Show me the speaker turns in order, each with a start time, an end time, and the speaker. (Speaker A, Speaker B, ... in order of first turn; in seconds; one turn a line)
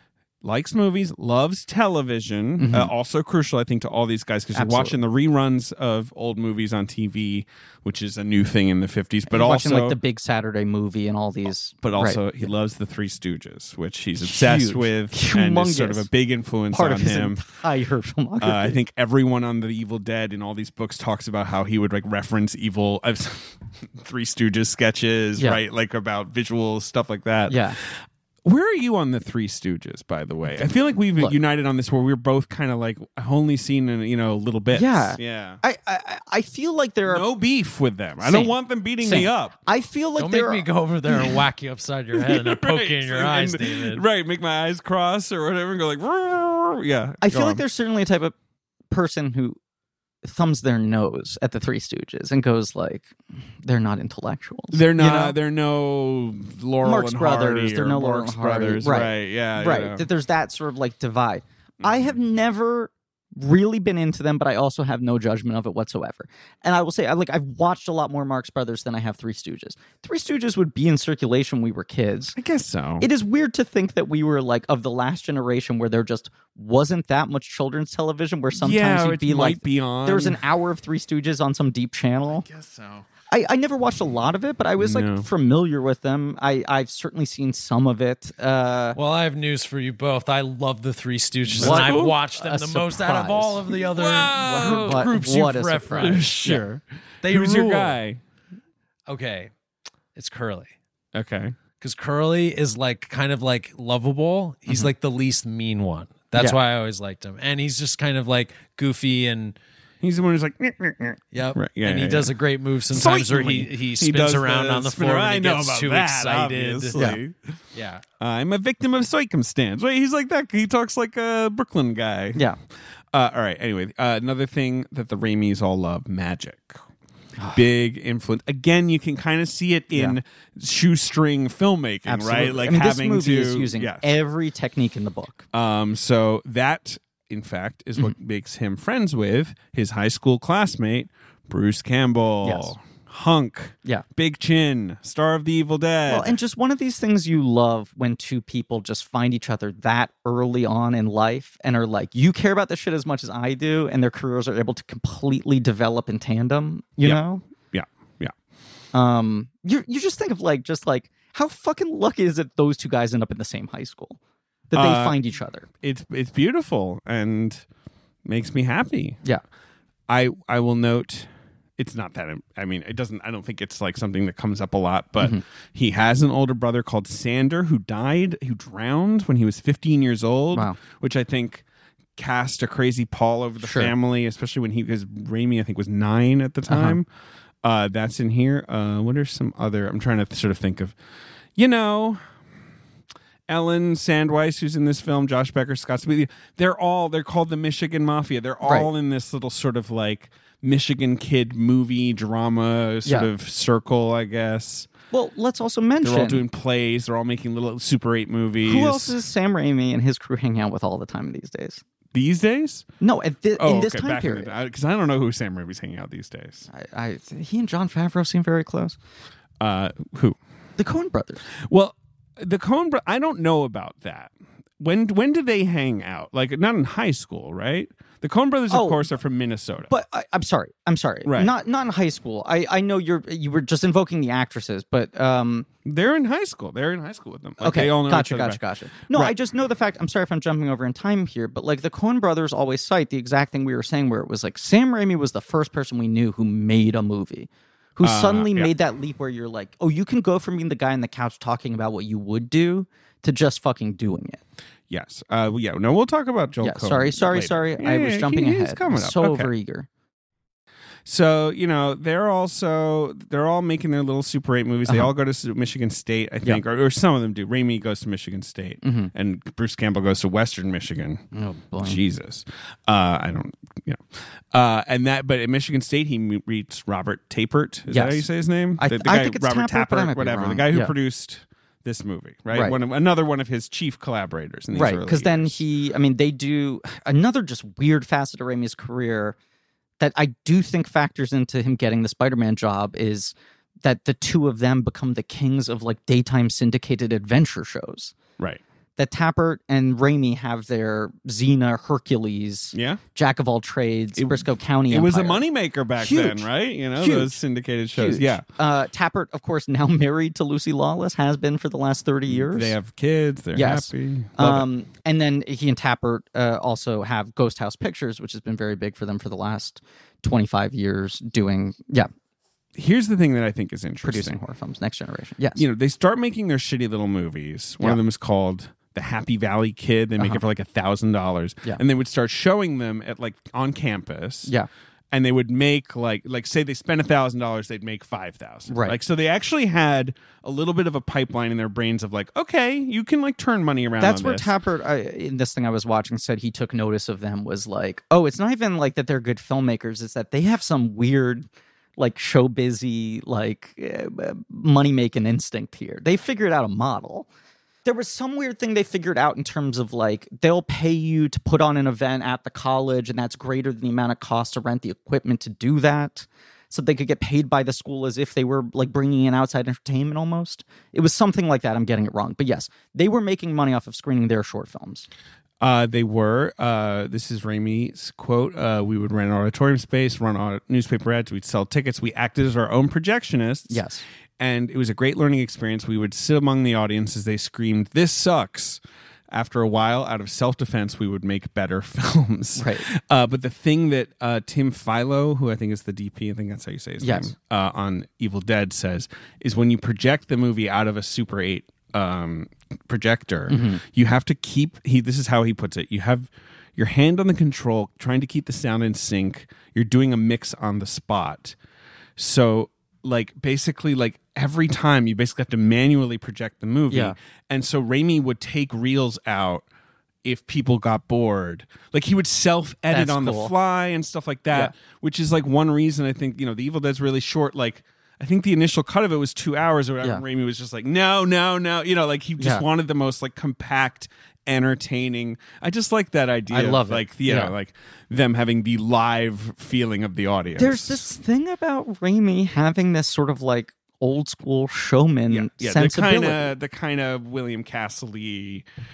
Speaker A: 0.4-10.0
Speaker B: 2.6-2.9
Speaker B: 4.5-5.0
Speaker B: 9.3-12.2
Speaker A: 11.8-17.4
Speaker B: 14.2-16.1
Speaker B: 16.7-18.8
Speaker A: 18.4-35.6
Speaker B: 27.5-27.8
Speaker B: 34.7-37.2
Speaker A: 37.1-39.5
Speaker B: 38.2-41.4
Speaker C: 40.2-44.0
Speaker A: 42.1-47.6
Speaker B: 47.2-48.3
Speaker B: 48.9-49.6
Speaker B: 50.2-55.3
Speaker A: 54.7-60.0
Speaker B: 56.8-72.4
Speaker A: 61.8-62.1
Speaker A: 72.3-73.1
Speaker B: 73.0-82.5
Speaker A: 78.5-80.4
Speaker A: 82.4-83.0
Speaker B: 83.3-89.0
Speaker A: 84.8-85.3
Speaker C: 89.0-96.6
Speaker A: 91.5-92.2
Speaker B: 91.5-93.6
Speaker A: 93.8-95.1
Speaker B: 94.4-96.6
Speaker A: 96.0-98.2
Speaker C: 97.2-98.0
Speaker C: 99.1-99.5
Speaker C: 100.1-100.7
Speaker A: 101.1-101.6
Speaker C: 101.8-109.6
Speaker A: 110.0-112.3
Speaker C: 111.3-117.1
Speaker A: 112.9-117.5
Speaker B: 116.9-117.2
Speaker C: 117.7-118.0
Speaker A: 118.2-122.4
Speaker A: 123.1-126.8
Speaker B: 127.4-127.6
Speaker A: 127.5-134.1
Speaker B: 132.1-135.4
Speaker A: 135.5-146.4
Speaker B: 142.4-142.7
Speaker B: 146.1-157.4
Speaker A: 157.0-158.3
Speaker B: 158.9-164.2
Speaker B: 164.7-165.7
Speaker A: 164.7-165.2
Speaker A: 165.8-167.6
Speaker A: 168.2-169.2
Speaker A: 170.1-181.6
Speaker A: 182.2-187.1
Speaker B: 183.6-183.9
Speaker B: 186.7-187.0
Speaker A: 187.6-190.9
Speaker A: 191.6-192.2
Speaker A: 193.5-204.9
Speaker B: 198.6-198.9
Speaker B: 203.0-203.3
Speaker B: 205.1-206.4
Speaker A: 206.0-209.2
Speaker B: 208.6-211.8
Speaker A: 212.1-212.9
Speaker B: 213.0-214.5
Speaker A: 213.6-216.7
Speaker B: 216.7-219.0
Speaker A: 219.6-220.4
Speaker B: 220.8-221.4
Speaker A: 221.6-229.9
Speaker B: 228.7-229.0
Speaker B: 229.9-235.7
Speaker A: 231.2-231.5
Speaker A: 235.8-239.3
Speaker B: 237.6-254.4
Speaker A: 248.0-248.7
Speaker A: 254.9-259.5
Speaker B: 256.6-259.9
Speaker A: 261.0-271.2
Speaker B: 268.8-269.1
Speaker B: 271.3-272.0
Speaker A: 271.8-285.6
Speaker B: 277.9-278.2
Speaker B: 278.8-280.9
Speaker B: 284.7-289.4
Speaker B: 290.0-298.1
Speaker B: 299.0-305.4
Speaker A: 302.7-303.0
Speaker A: 304.2-308.4
Speaker B: 306.0-307.4
Speaker B: 307.9-312.8
Speaker A: 312.3-314.7
Speaker B: 313.5-322.1
Speaker A: 322.7-324.4
Speaker B: 324.0-325.6
Speaker A: 325.6-334.5
Speaker A: 335.1-344.5
Speaker B: 338.7-339.0
Speaker B: 344.0-357.3
Speaker B: 357.8-375.1
Speaker A: 375.6-383.8
Speaker B: 383.7-384.0
Speaker A: 384.4-388.8
Speaker A: 389.3-411.6
Speaker B: 392.6-392.9
Speaker B: 397.0-397.3
Speaker B: 403.5-403.8
Speaker A: 412.2-419.6
Speaker B: 416.9-417.2
Speaker A: 420.2-441.0
Speaker B: 422.9-423.5
Speaker B: 432.4-432.6
Speaker B: 436.5-437.5
Speaker B: 440.6-446.5
Speaker A: 445.3-448.6